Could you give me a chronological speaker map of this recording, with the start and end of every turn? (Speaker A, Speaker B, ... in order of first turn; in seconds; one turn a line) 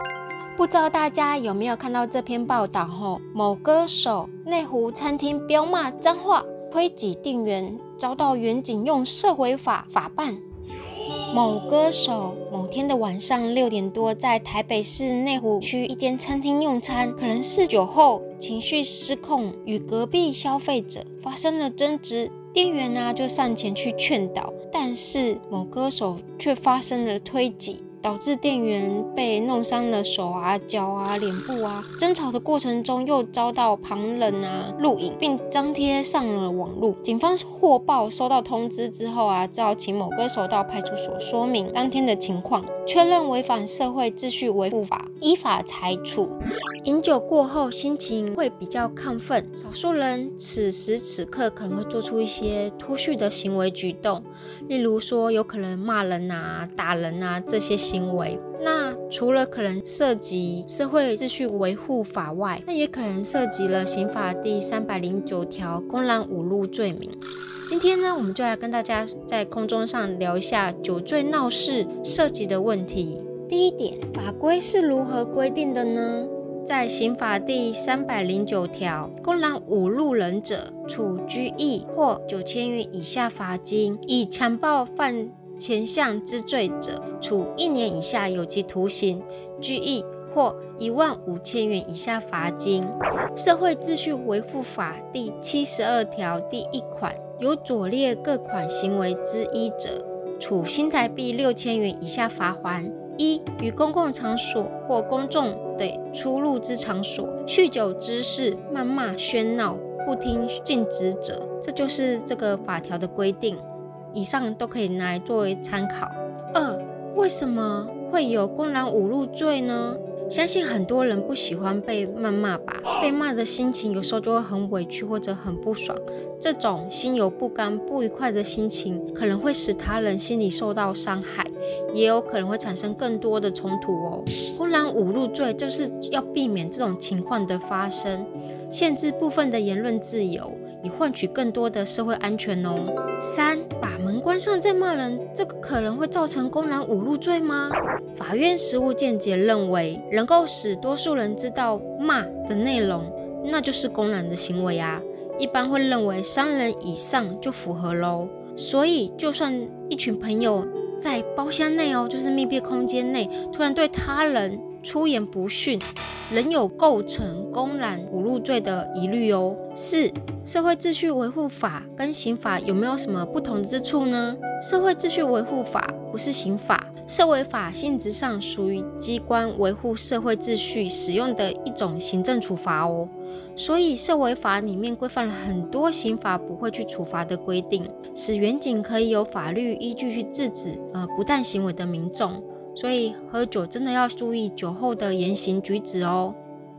Speaker A: 0.6-10.4
Speaker A: 11.3-196.4